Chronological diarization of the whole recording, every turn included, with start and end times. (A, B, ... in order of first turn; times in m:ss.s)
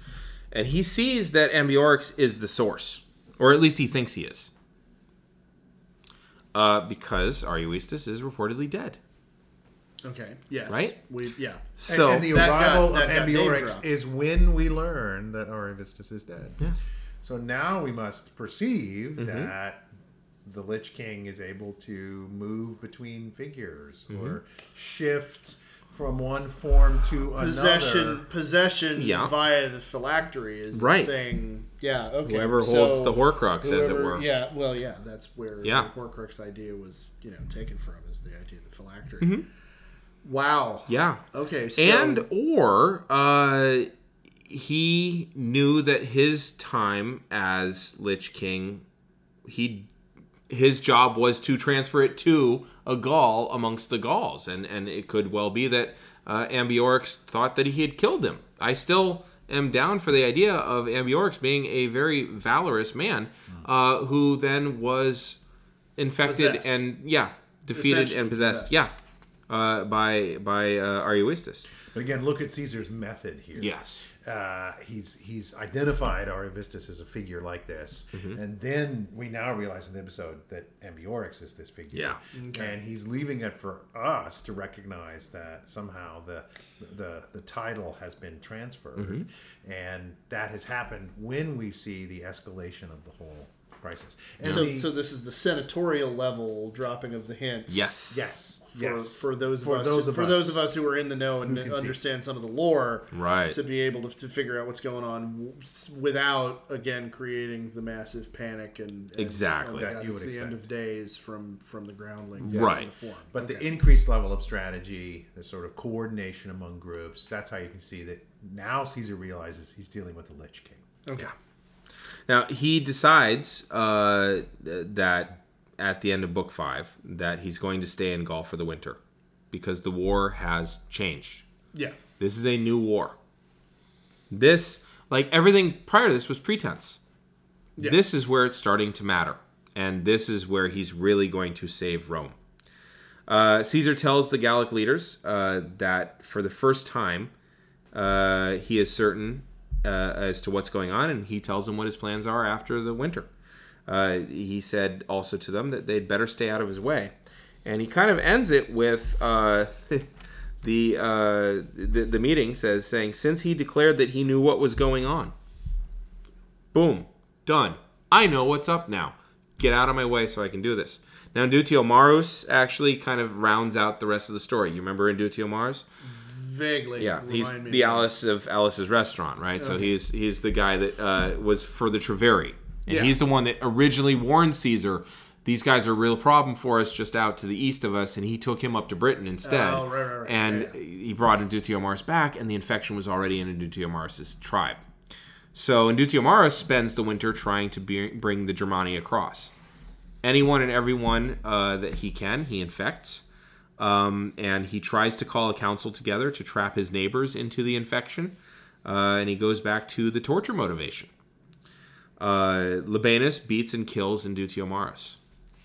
0:00.5-0:04.5 A
0:06.5-0:09.0 A
0:10.0-0:13.8 B
0:10.7-0:11.0 A
0:11.7-0:12.4 A
0:11.9-0:16.6 C
0:17.2-0:19.9 C
0:19.2-0:19.5 A
0:20.4-0:28.2 C
0:24.1-0:24.4 A
0:27.4-0:39.4 B
0:29.0-0:29.3 A
0:30.7-0:31.1 A
0:32.2-0:34.2 A
0:35.6-0:35.9 A
0:40.2-0:42.2 B
0:40.9-0:41.2 A
0:41.8-0:43.9 A
0:44.5-0:48.8 A
0:49.4-0:49.9 A
0:50.5-1:05.4 A
1:06.0-1:08.9 A
1:06.2-1:06.8 B
1:07.7-1:08.7 B
1:09.5-1:11.7 A
1:11.8-1:34.9 C
1:13.6-1:14.0 A
1:18.1-1:18.4 A
1:21.9-1:22.2 A
1:22.3-1:22.7 B
1:29.0-1:29.3 A
1:34.4-1:34.7 A
1:34.4-1:37.9 B
1:37.7-1:38.3 A
1:38.1-1:40.7 C
1:38.7-1:53.7 B
1:41.4-1:42.0 C
1:43.1-1:43.6 A
1:49.2-1:49.9 A
1:49.8-1:50.6 C
1:52.4-1:52.9 A
1:52.5-1:52.8 C
1:53.3-2:00.9 C
2:01.0-2:01.3 B
2:02.3-2:09.0 A
2:09.5-2:11.4 A
2:12.2-2:13.2 A
2:14.3-2:17.0 A
2:17.8-2:22.4 A
2:23.3-2:27.3 A
2:27.9-2:33.3 A
2:33.9-2:37.1 A
2:37.6-2:40.1 A
2:40.6-2:45.3 A
2:46.7-2:55.8 A
2:56.0-2:58.1 B
2:57.0-3:14.8 A
2:59.6-2:59.9 B
3:02.9-3:03.2 B
3:09.4-3:10.8 B
3:15.5-3:19.5 A
3:20.2-3:23.2 A
3:23.8-3:31.1 A
3:32.2-3:35.2 A